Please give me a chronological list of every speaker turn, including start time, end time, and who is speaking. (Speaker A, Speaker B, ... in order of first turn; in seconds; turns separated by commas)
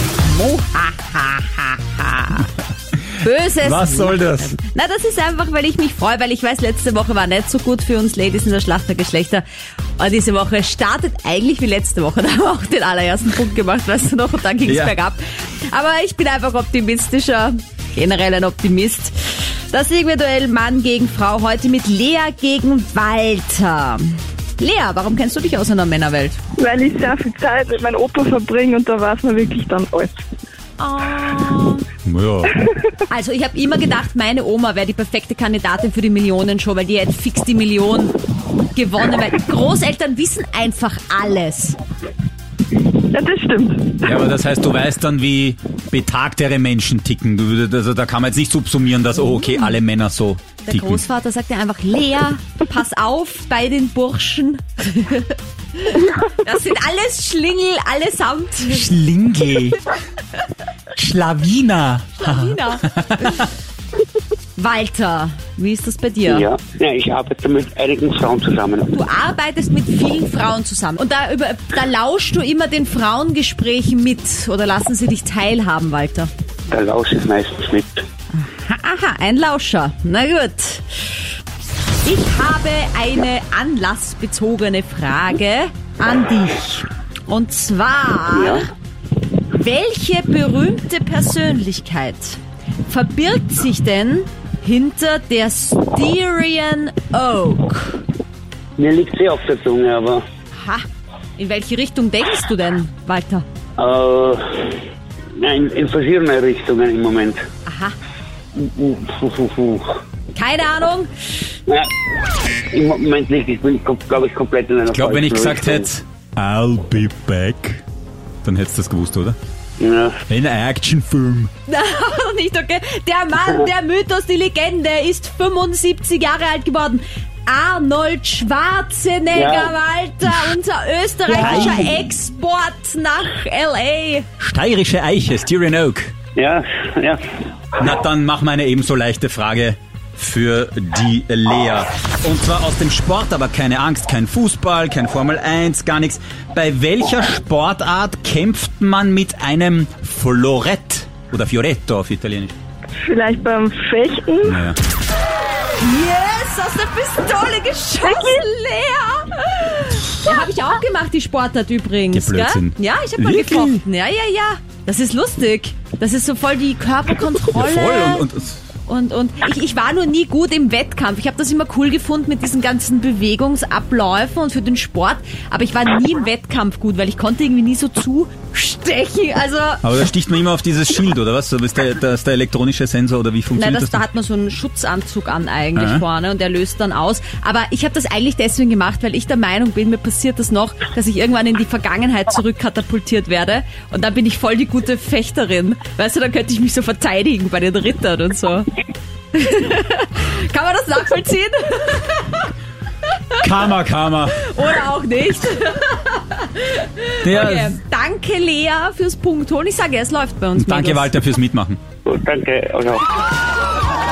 Speaker A: 0.2-2.5, Speaker A: 3.1-9.4, Speaker B: 3.6-4.5, Speaker A: 10.0-26.4, Speaker B: 14.7-14.9, Speaker C: 26.6-30.2, Speaker A: 30.8-31.9, Speaker B: 32.0-32.6, Speaker A: 33.1-38.2, Speaker A: 38.7-41.8, Speaker C: 42.9-44.0, Speaker B: 44.0-51.0, Speaker A: 49.1-49.8, Speaker A: 50.6-58.9, Speaker B: 58.7-59.8, Speaker B: 61.0-63.4, Speaker A: 62.2-63.5, Speaker A: 64.6-66.5, Speaker D: 66.3-68.9, Speaker A: 68.9-76.3, Speaker D: 76.7-78.0, Speaker A: 78.3-81.1, Speaker A: 82.0-88.7, Speaker D: 88.3-88.7, Speaker A: 89.5-98.0, Speaker D: 98.8-100.2, Speaker A: 100.5-100.8, Speaker A: 101.4-103.5, Speaker D: 103.8-104.8, Speaker D: 105.4-107.4, Speaker A: 107.7-108.0, Speaker D: 108.6-109.9, Speaker A: 110.3-111.1, Speaker D: 112.7-115.9, Speaker B: 114.9-117.8, Speaker B: 118.4-119.4, Speaker D: 119.8-120.2, Speaker B: 120.3-121.5, Speaker A: 121.7-134.3, Speaker D: 129.3-129.7, Speaker B: 130.2-130.5, Speaker B: 131.3-132.0, Speaker B: 134.4-136.1, Speaker D: 136.4-137.2, Speaker B: 137.8-152.6, Speaker C: 153.0-154.6, Speaker B: 154.4-154.8, Speaker A: 155.8-168.3, Speaker C: 158.1-158.4, Speaker B: 162.1-163.8, Speaker B: 167.5-168.6, Speaker A: 168.9-180.0, Speaker B: 179.8-184.1, Speaker A: 183.5-198.7, Speaker B: 185.8-186.0, Speaker A: 199.3-202.5, Speaker A: 203.1-203.5, Speaker B: 203.4-204.4, Speaker A: 204.4-211.1, Speaker B: 207.2-207.8, Speaker B: 210.6-211.8, Speaker D: 212.1-213.1